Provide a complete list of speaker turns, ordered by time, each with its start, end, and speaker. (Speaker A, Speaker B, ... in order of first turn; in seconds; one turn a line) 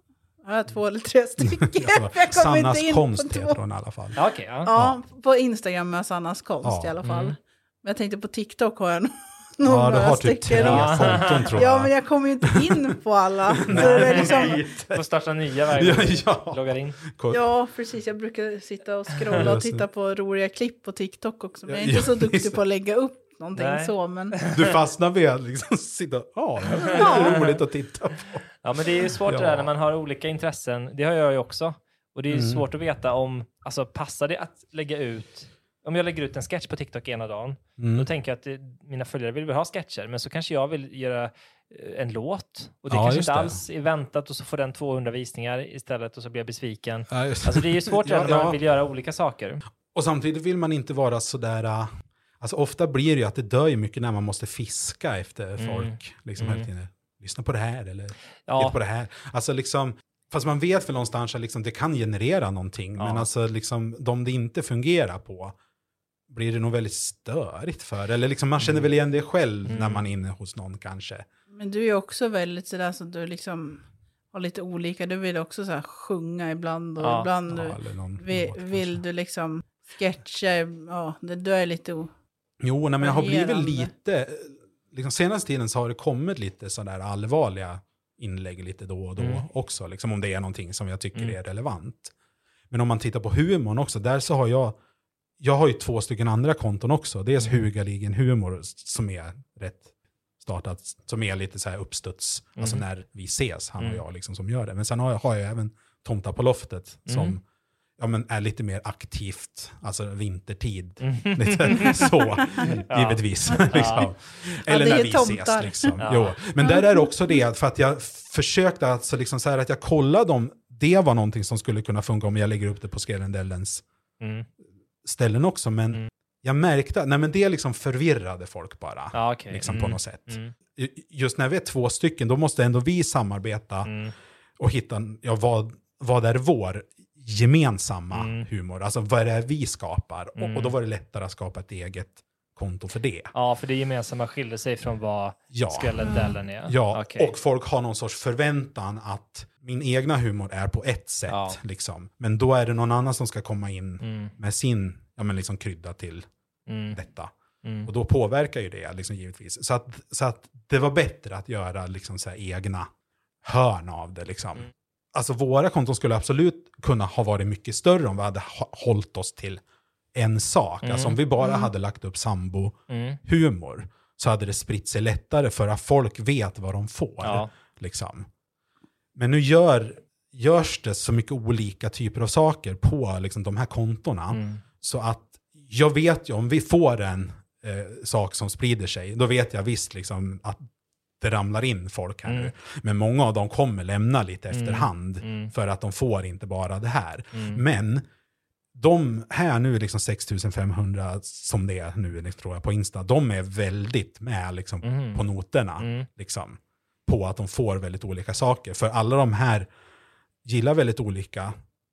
Speaker A: 0.4-3.6
Speaker B: 1.4-5.0
Speaker C: 4.2-4.7
Speaker A: 4.7-14.6
Speaker B: 6.6-6.9
Speaker C: 7.0-7.3
Speaker B: 9.6-11.9
Speaker C: 10.6-11.5
Speaker B: 12.5-12.7
Speaker B: 13.6-15.0
Speaker C: 13.7-17.0
Speaker B: 15.7-17.4
Speaker A: 17.3-24.4
Speaker B: 19.3-19.8
Speaker B: 21.7-22.6
Speaker C: 23.5-24.8
Speaker B: 24.5-29.7
Speaker A: 26.9-27.3
Speaker C: 26.9-27.6
Speaker C: 28.6-49.6
Speaker B: 32.3-32.6
Speaker B: 37.8-38.1
Speaker B: 42.9-43.6
Speaker B: 47.1-48.6
Speaker B: 49.9-65.5
Speaker C: 55.6-56.7
Speaker C: 58.5-58.8
Speaker C: 63.0-63.3
Speaker B: 66.3-71.2
Speaker C: 68.6-68.9
Speaker C: 69.7-70.0
Speaker A: 71.5-82.1
Speaker C: 77.0-77.3
Speaker B: 77.5-79.0
Speaker B: 82.6-92.1
Speaker A: 83.0-83.9
Speaker C: 89.2-89.4
Speaker B: 92.7-94.8
Speaker B: 95.4-99.9
Speaker B: 100.4-107.4
Speaker C: 102.6-102.8
Speaker C: 107.1-107.4
Speaker B: 108.0-123.8
Speaker C: 111.0-112.1
Speaker C: 112.9-114.1
Speaker A: 113.5-114.0
Speaker A: 114.7-116.0
Speaker C: 116.0-116.3
Speaker A: 116.6-117.1
Speaker C: 124.2-124.5
Speaker B: 125.0-133.9
Speaker C: 129.1-130.5
Speaker C: 133.8-134.1
Speaker B: 134.6-143.3
Speaker C: 138.1-138.4
Speaker C: 140.3-140.8
Speaker C: 143.3-147.3
Speaker B: 145.5-156.3
Speaker A: 146.0-146.3
Speaker C: 151.3-151.6
Speaker C: 154.0-154.3
Speaker C: 156.7-157.0
Speaker B: 156.9-157.3
Speaker C: 157.6-157.9
Speaker B: 157.8-162.9
Speaker B: 163.4-169.6
Speaker B: 170.1-178.3
Speaker C: 170.8-171.2
Speaker A: 171.4-171.7
Speaker C: 172.9-173.2
Speaker C: 177.2-177.5
Speaker B: 179.1-190.7
Speaker C: 184.3-184.6
Speaker B: 191.2-198.1
Speaker C: 192.2-192.5
Speaker C: 194.5-195.5
Speaker C: 197.3-197.6
Speaker B: 198.7-209.7
Speaker C: 204.8-205.2
Speaker C: 205.8-206.1
Speaker B: 210.4-211.6